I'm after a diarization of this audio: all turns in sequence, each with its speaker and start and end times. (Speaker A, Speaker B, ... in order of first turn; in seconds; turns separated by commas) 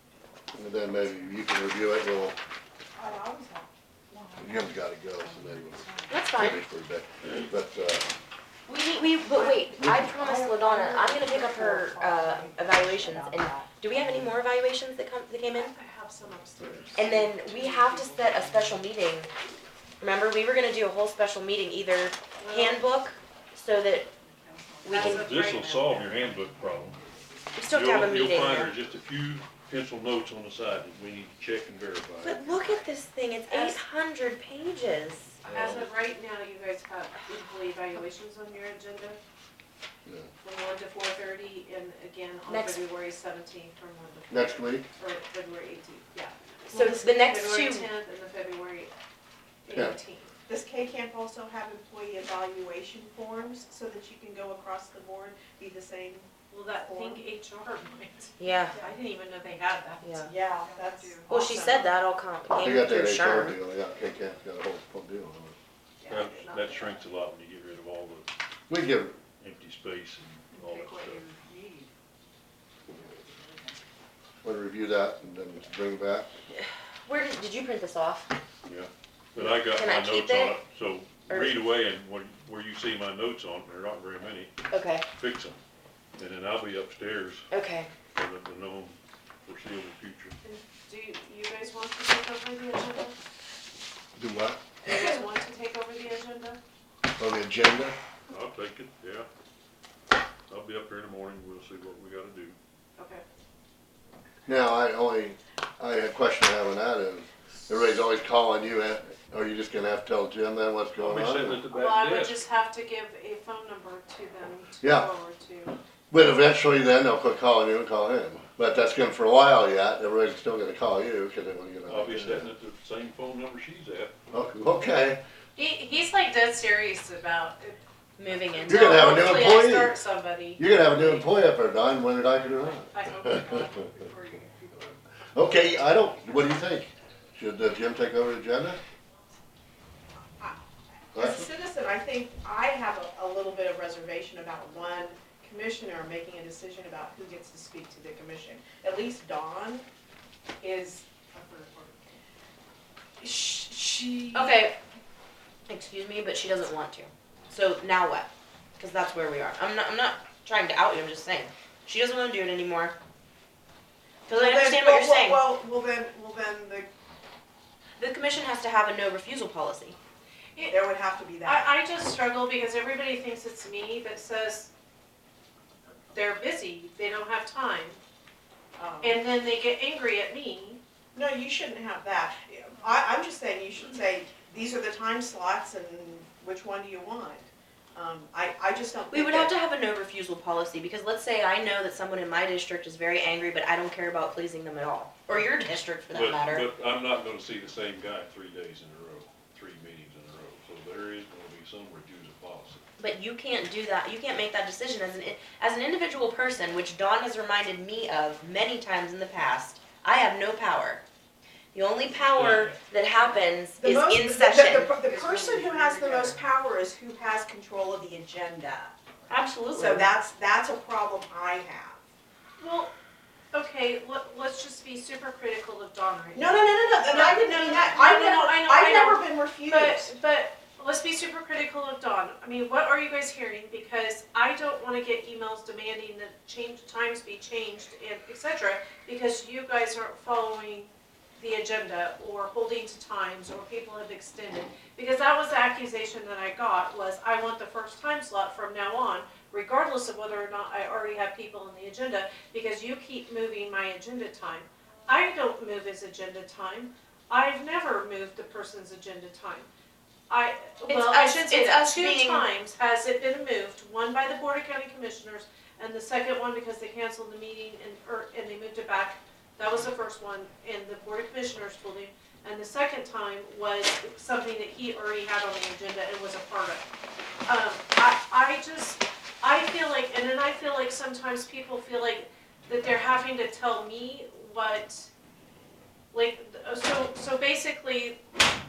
Speaker A: 0.5-2.4, Speaker B: 3.0-4.5, Speaker A: 4.4-8.2, Speaker C: 6.1-6.6, Speaker C: 8.7-15.7, Speaker B: 9.3-14.3, Speaker D: 15.5-17.8, Speaker C: 16.9-19.3, Speaker C: 20.0-24.1, Speaker D: 22.4-22.8, Speaker C: 24.8-25.3, Speaker D: 24.8-26.4, Speaker E: 24.9-27.0, Speaker C: 27.5-28.7, Speaker E: 27.7-32.8, Speaker C: 32.2-35.4, Speaker D: 33.5-33.8, Speaker A: 35.5-35.8, Speaker D: 35.5-39.2, Speaker D: 40.4-48.9, Speaker C: 42.5-42.8, Speaker A: 44.3-44.9, Speaker C: 46.7-47.9, Speaker D: 49.6-50.3, Speaker B: 50.5-56.3, Speaker D: 56.5-61.3, Speaker B: 56.8-57.2, Speaker C: 58.4-58.8, Speaker C: 60.0-60.3, Speaker B: 60.2-62.0, Speaker C: 61.3-63.6, Speaker A: 62.6-65.6, Speaker B: 66.0-66.8, Speaker E: 66.1-68.3, Speaker A: 68.7-69.2, Speaker E: 69.4-71.2, Speaker A: 74.4-76.3, Speaker C: 76.6-78.3, Speaker E: 78.6-84.5, Speaker C: 79.7-80.6, Speaker C: 81.3-81.6, Speaker C: 84.7-85.1, Speaker E: 85.2-85.6, Speaker E: 86.2-87.5, Speaker C: 87.5-87.9, Speaker E: 88.1-90.3, Speaker D: 90.4-93.1, Speaker A: 94.1-94.6, Speaker D: 94.8-96.6, Speaker A: 97.2-98.0, Speaker E: 98.3-99.3, Speaker E: 100.5-102.6, Speaker D: 103.0-103.2, Speaker A: 104.5-111.6, Speaker E: 111.0-112.4, Speaker D: 111.7-115.8, Speaker A: 114.8-115.1, Speaker A: 116.1-122.5, Speaker E: 121.9-124.1, Speaker A: 124.3-125.2, Speaker D: 125.5-131.3, Speaker C: 128.2-129.3, Speaker A: 128.7-129.9, Speaker A: 130.6-133.7, Speaker D: 132.9-134.9, Speaker A: 135.3-138.8, Speaker A: 141.1-141.5, Speaker B: 141.1-149.8, Speaker B: 150.6-152.0, Speaker B: 153.2-154.7, Speaker C: 154.3-154.8, Speaker C: 155.7-162.9, Speaker C: 164.3-165.4, Speaker B: 164.3-166.9, Speaker C: 168.0-170.0, Speaker B: 170.7-171.7, Speaker D: 171.4-174.7, Speaker D: 176.1-178.0, Speaker B: 178.8-179.2, Speaker D: 179.0-180.8, Speaker B: 181.1-189.6, Speaker C: 189.1-196.7, Speaker E: 196.1-202.8, Speaker C: 203.0-211.0, Speaker C: 211.7-214.9, Speaker E: 212.1-212.8, Speaker B: 213.8-219.0, Speaker C: 219.3-220.1, Speaker B: 219.7-222.0, Speaker D: 222.6-222.9, Speaker D: 223.5-259.7, Speaker B: 226.3-230.1, Speaker D: 260.3-276.8, Speaker C: 260.9-262.5, Speaker D: 277.5-285.1, Speaker D: 286.1-288.2